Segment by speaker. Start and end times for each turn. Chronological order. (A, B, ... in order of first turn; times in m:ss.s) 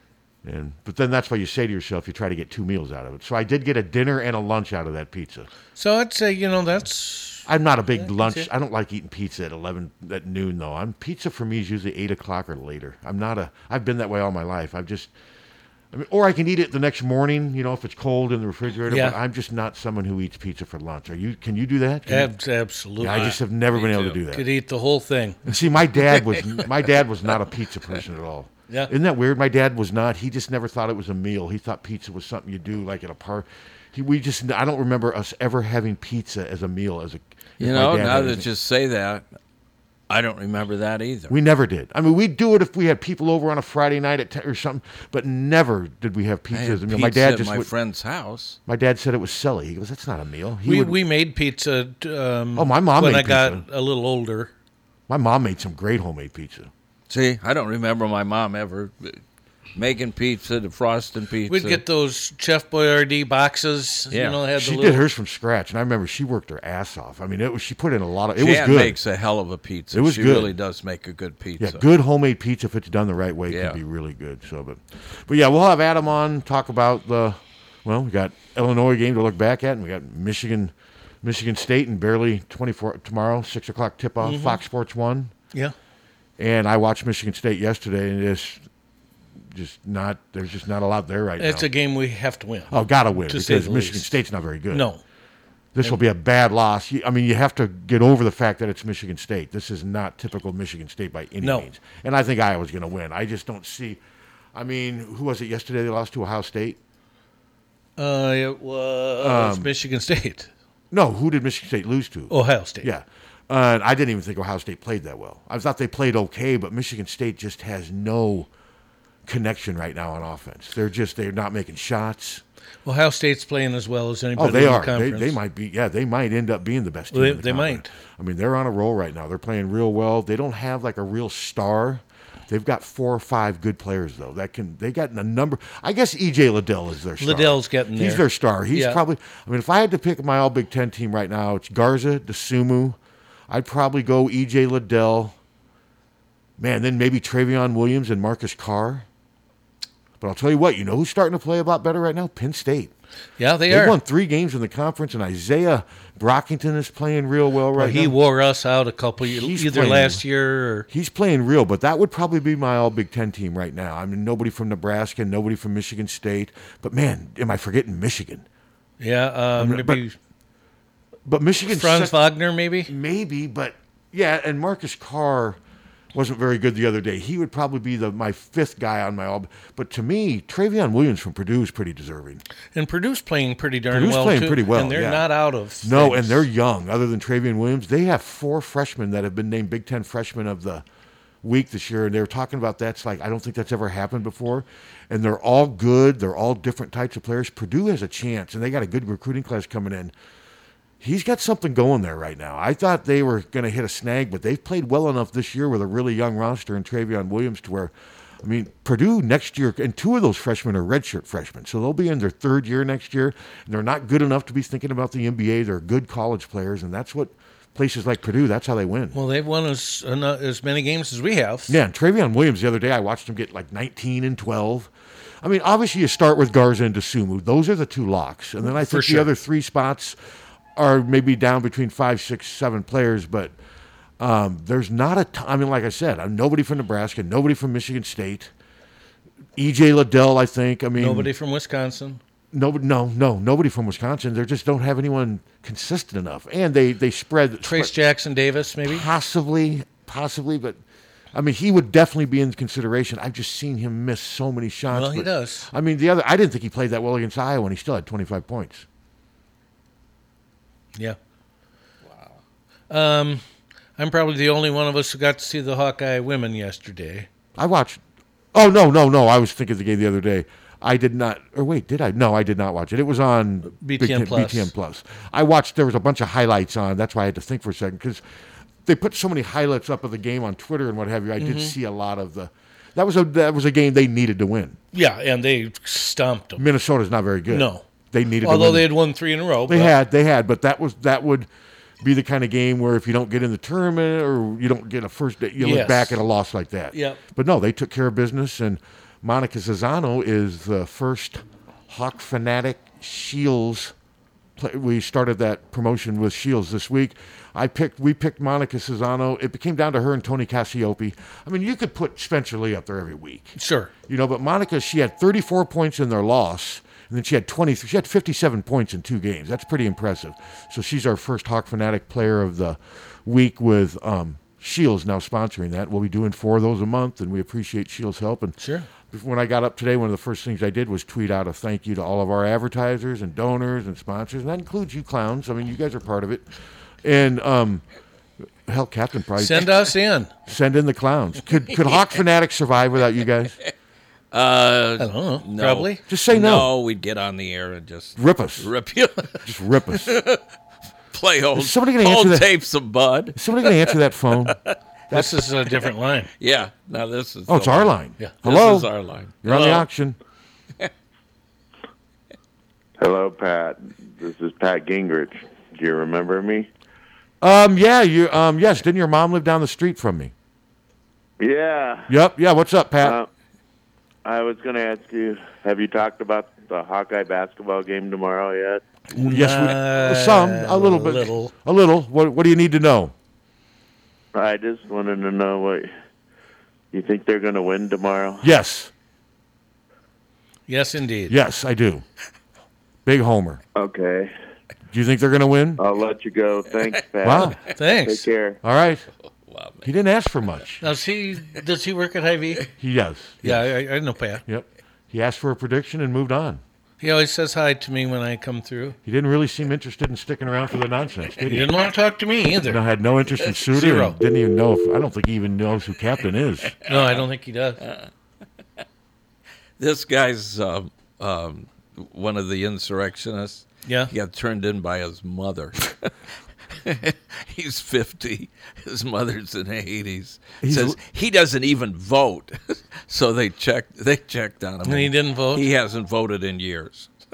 0:00.4-0:05.5 A
0:05.8-0:07.4 B
0:07.4-0:15.1 A
0:08.0-0:08.5 B
0:15.9-0:22.3 A
0:18.9-0:19.2 B
0:22.1-0:23.4 B
0:23.0-0:24.4 A
0:23.8-0:24.1 C
0:24.3-0:25.4 B
0:25.4-0:38.5 A
0:37.6-0:39.3 C
0:40.1-0:41.3 C
0:41.3-0:47.7 A
0:46.5-0:48.6 C
0:48.6-0:51.0 A
0:50.6-0:54.5 B
0:52.5-0:53.6 A
0:55.1-0:56.7 A
0:57.1-0:59.2 C
0:59.8-1:01.8 C
1:01.5-1:05.0 B
1:04.1-1:04.4 C
1:04.6-1:09.0 A
1:08.4-1:11.8 C
1:09.9-1:10.5 A
1:11.6-1:25.3 A
1:13.5-1:13.8 C
1:24.2-1:24.6 B
1:26.4-1:28.6 A
1:29.5-1:31.7 A
1:31.4-1:34.2 B
1:32.7-1:34.9 A
1:34.7-1:35.0 B
1:35.8-1:44.0 A
1:41.4-1:41.7 B
1:44.5-1:46.8 A
1:48.0-1:50.5 B
1:49.2-1:49.7 A
1:50.9-1:58.5 A
1:52.3-1:52.9 B
1:59.2-2:02.4 A
2:02.9-2:05.4 B
2:04.4-2:23.0 A
2:07.1-2:07.9 B
2:17.2-2:19.0 B
2:23.5-2:25.3 A
2:26.6-2:29.0 A
2:30.2-2:32.9 A
2:33.4-2:34.0 B
2:33.7-2:38.1 A
2:37.8-2:40.9 B
2:39.2-2:40.2 A
2:40.9-2:48.4 A
2:49.0-2:50.2 B
2:49.6-2:50.0 A
2:51.2-2:52.2 A
2:51.7-2:52.9 B
2:52.9-2:55.6 A
2:56.1-3:02.4 A
3:02.8-3:06.5 B
3:03.9-3:05.2 A
3:05.8-3:10.8 A
3:11.4-3:20.1 A
3:21.0-3:39.2 A
3:39.1-3:41.8 B
3:41.7-3:50.2 A
3:48.6-3:49.3 B
3:50.8-3:53.5 A
3:54.2-3:58.5 A
3:59.6-4:01.3 A
4:01.0-4:02.2 B
4:02.5-4:07.9 A
4:07.6-4:09.1 B
4:08.8-4:10.8 A
4:11.3-4:18.8 A
4:14.9-4:15.7 B
4:22.9-4:23.4 B
4:24.0-4:27.3 B
4:27.6-4:28.0 A
4:28.5-4:38.2 A
4:33.8-4:34.7 B
4:38.8-4:44.8 A
4:41.4-4:41.8 B
4:44.9-4:46.6 B
4:46.6-4:48.9 A
4:47.5-4:47.8 B
4:48.4-4:49.9 B
4:49.7-4:51.5 A
4:52.0-5:03.9 A
4:55.6-4:56.2 B
4:56.9-4:57.2 B
5:04.6-5:13.6 A
5:13.6-5:13.9 B
5:14.1-5:28.6 A
5:28.6-5:28.9 B
5:29.1-5:36.5 A
5:37.0-5:37.8 A
5:38.6-5:39.7 A
5:39.4-5:40.3 B
5:40.4-5:43.5 A
5:44.3-5:49.4 C
5:45.0-5:46.0 B
5:46.1-5:46.7 A
5:48.2-5:48.7 A
5:49.4-5:50.1 A
5:50.0-5:50.4 C
5:51.1-5:53.9 C
5:51.5-5:52.5 A
5:53.3-5:54.6 A
5:55.1-5:56.3 B
5:56.4-5:59.8 C
5:57.5-5:58.9 A
5:59.4-6:00.2 A
6:03.0-6:06.7 D
6:07.4-6:10.3 A
6:11.4-6:12.1 D
6:12.1-6:13.2 A
6:13.0-6:13.3 D
6:14.2-6:18.8 D
6:19.1-6:21.5 B
6:19.2-6:23.1 A
6:24.3-6:25.9 D
6:26.9-6:28.5 D
6:28.4-6:28.9 A
6:30.7-6:31.3 B
6:31.3-6:32.0 A
6:33.0-6:33.6 A
6:33.8-6:34.3 D
6:34.9-6:35.8 A
6:35.8-6:38.6 D
6:36.9-6:37.6 C
6:37.2-6:37.6 A
6:37.7-6:38.3 B
6:38.6-6:39.0 A
6:39.4-6:39.8 C
6:39.8-6:40.8 A
6:40.8-6:42.6 B
6:42.8-6:43.6 A
6:43.4-6:44.4 B
6:44.4-6:46.6 A
6:47.0-6:49.0 B
6:49.0-6:51.6 A
6:51.5-6:52.8 B
6:52.6-6:56.7 A
6:53.7-6:54.1 B
6:56.9-6:57.8 B
6:59.8-7:06.1 C
7:03.9-7:04.1 B
7:06.8-7:17.1 C
7:10.6-7:11.0 A
7:14.8-7:15.6 B